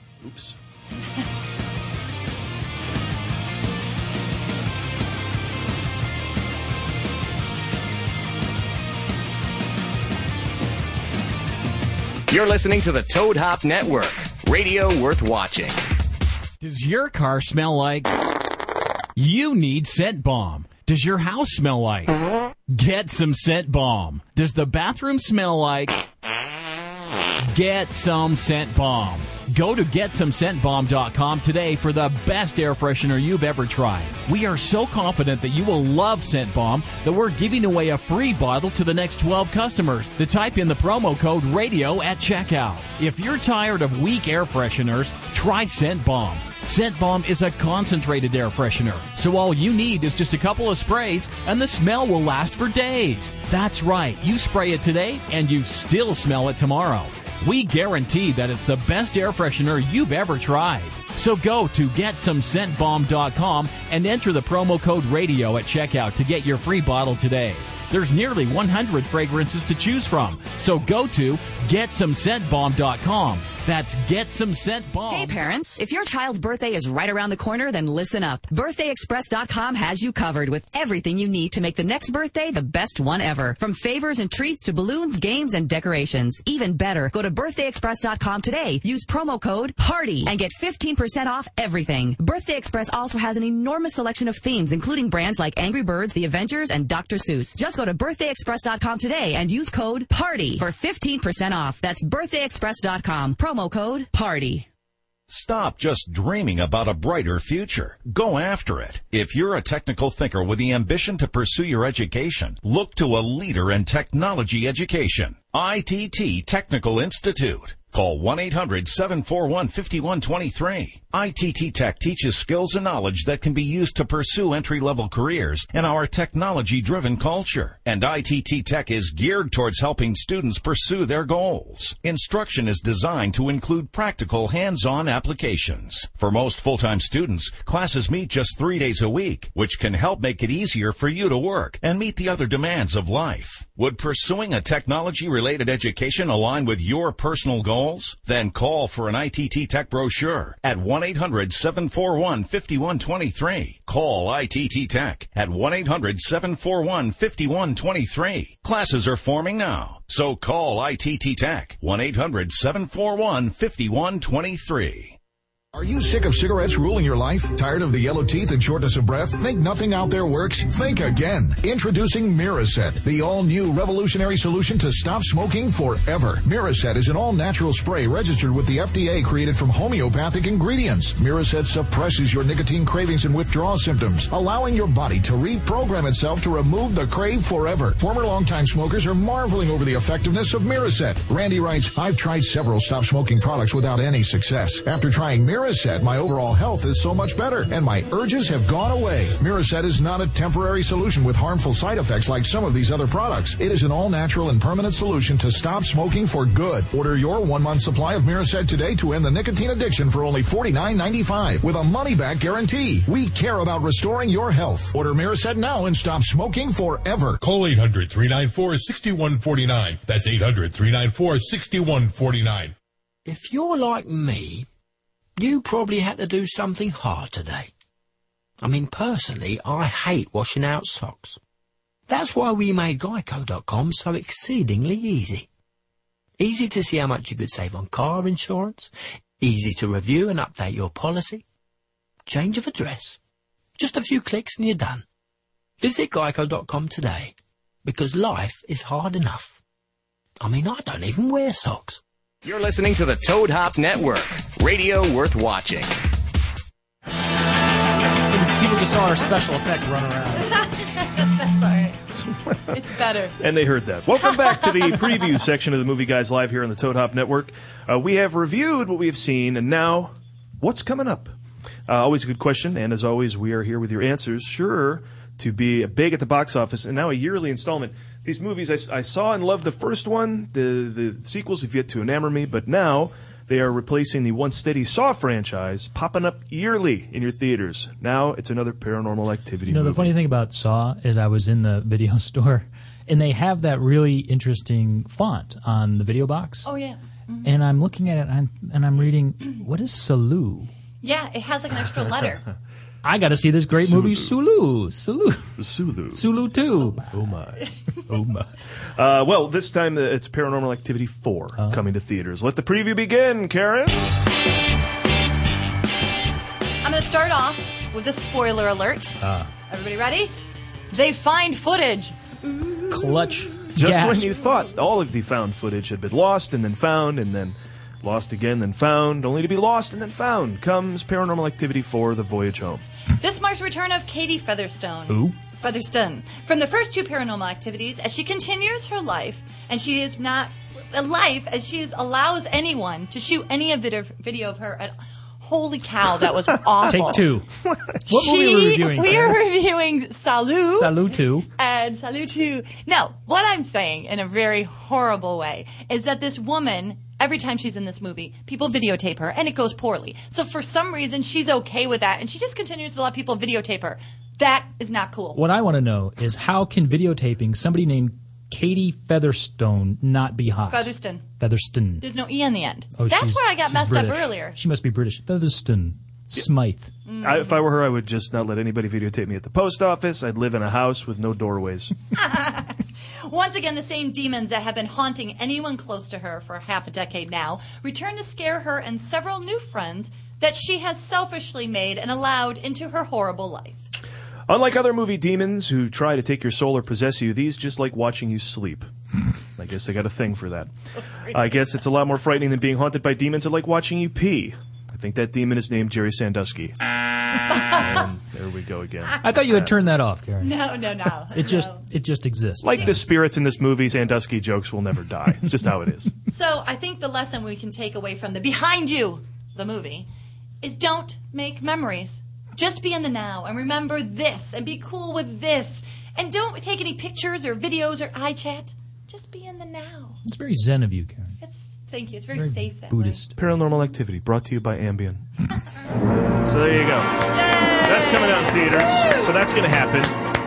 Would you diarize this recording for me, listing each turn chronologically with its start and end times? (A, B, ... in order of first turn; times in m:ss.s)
0:00.2-0:00.6 A
0:12.3-0:15.9 B
0:16.6-0:18.1 C
0:19.2-0:26.0 C
0:27.5-1:15.4 C
1:15.1-1:44.7 D
1:45.3-2:45.2 E
2:45.7-3:37.4 F
3:37.4-3:42.7 G
3:43.2-3:44.7 H
3:45.4-3:47.7 H
3:48.6-3:51.4 H
3:52.1-3:55.5 H
3:56.4-4:01.4 H
4:02.3-4:03.2 H
4:03.8-4:05.0 H
4:05.8-4:09.5 H
4:10.4-4:12.0 H
4:12.4-4:16.0 B
4:18.2-4:20.6 I
4:20.4-4:22.0 J
4:22.1-4:22.8 A
4:22.7-4:23.4 J
4:23.4-4:31.3 A
4:31.9-4:50.1 A
4:49.6-4:56.7 I
4:56.6-4:57.5 J
4:57.4-5:00.7 I
5:01.0-5:02.4 J
5:03.0-5:05.6 I
5:03.7-5:04.3 A
5:05.6-5:06.2 A
5:06.1-5:07.1 I
5:07.1-5:07.6 A
5:08.1-5:08.5 I
5:08.9-5:14.1 A
5:11.6-5:11.8 I
5:16.8-5:19.2 J
5:19.2-5:19.5 I
5:19.7-5:20.3 J
5:20.9-5:23.6 J
5:22.9-5:24.3 I
5:23.8-5:32.8 A
5:33.2-5:47.2 J
5:35.1-5:35.4 I
5:46.9-5:47.5 I
5:48.0-5:49.4 I
5:48.0-5:51.0 J
5:50.7-5:51.5 I
5:51.6-6:05.4 J
6:05.3-6:12.0 I
6:10.7-6:11.2 J
6:12.0-6:14.6 J
6:12.9-6:16.9 I
6:17.0-6:17.6 J
6:17.2-6:21.9 A
6:22.1-6:33.8 J
6:34.5-6:38.9 A
6:39.6-6:40.7 A
6:41.0-6:41.7 J
6:41.3-6:46.8 A
6:47.5-6:47.8 J
6:47.7-6:49.7 A
6:49.2-6:50.5 I
6:50.4-6:51.8 J
6:51.3-6:53.0 I
6:52.6-6:56.1 A
6:56.3-7:00.1 J
7:00.6-7:10.2 J
7:10.2-7:11.4 I
7:11.4-7:13.2 J
7:12.3-7:13.4 I
7:13.4-7:15.2 A
7:16.4-7:20.2 A
7:17.3-7:19.3 J